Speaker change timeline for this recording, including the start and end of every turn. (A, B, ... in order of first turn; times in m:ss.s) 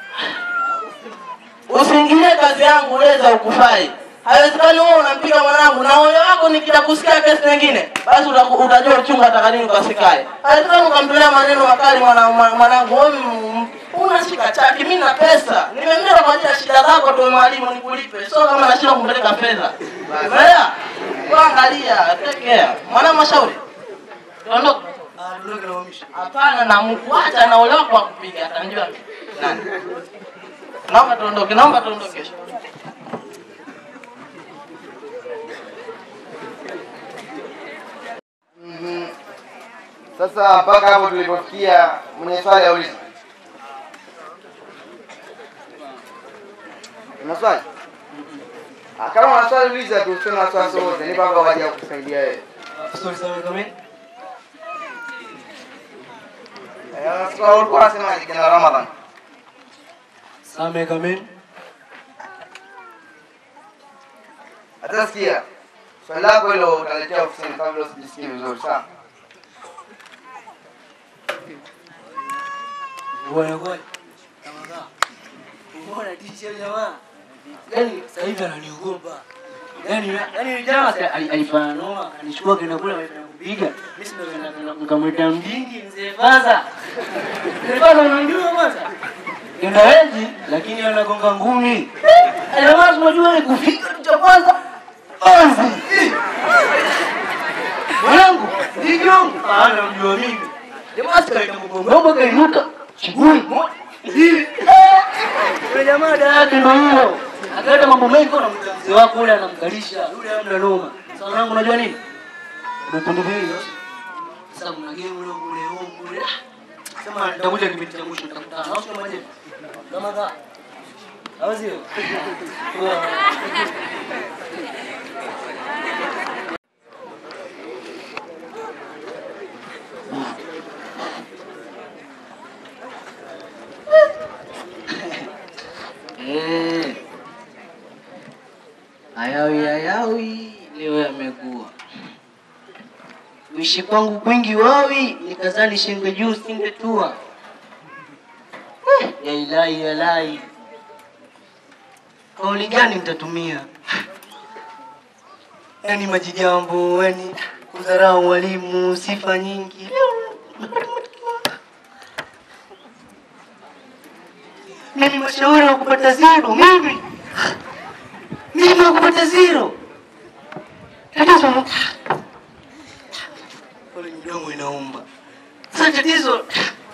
0:01.7-0:20.7 A
0:20.0-0:20.5 B
0:21.1-0:21.4 B
0:21.2-0:23.6 A
0:24.4-0:24.9 A
0:25.2-0:26.1 C
0:26.1-0:29.0 A
0:29.3-0:29.6 B
0:30.9-0:32.3 A
0:38.6-0:39.1 B
0:40.2-0:43.0 B
0:47.2-0:47.6 B
0:49.0-0:52.4 B
0:52.7-0:53.7 C
0:56.9-0:58.9 B
1:00.4-1:01.3 C
1:04.8-1:05.4 B
1:06.0-1:08.8 B
1:13.2-1:13.8 C
1:14.4-1:14.9 C
1:15.7-1:17.0 C
1:17.7-1:19.2 C
1:19.8-1:26.6 C
1:27.4-1:28.9 C
1:29.6-1:34.6 C
1:35.2-1:36.2 C
1:38.0-1:52.0 C
1:52.8-1:53.7 C
1:54.5-1:56.3 C
1:57.0-1:59.3 C
1:59.9-2:00.3 C
2:01.4-2:03.4 C
2:16.2-2:17.0 C
2:19.2-2:21.7 C
2:23.5-2:27.2 C
2:29.0-2:30.4 C
2:32.4-2:33.7 C
2:35.8-2:41.4 C
2:44.9-2:47.0 C
2:48.5-2:49.7 C
2:51.1-2:51.9 C
2:53.9-2:55.0 C
2:55.7-2:56.7 C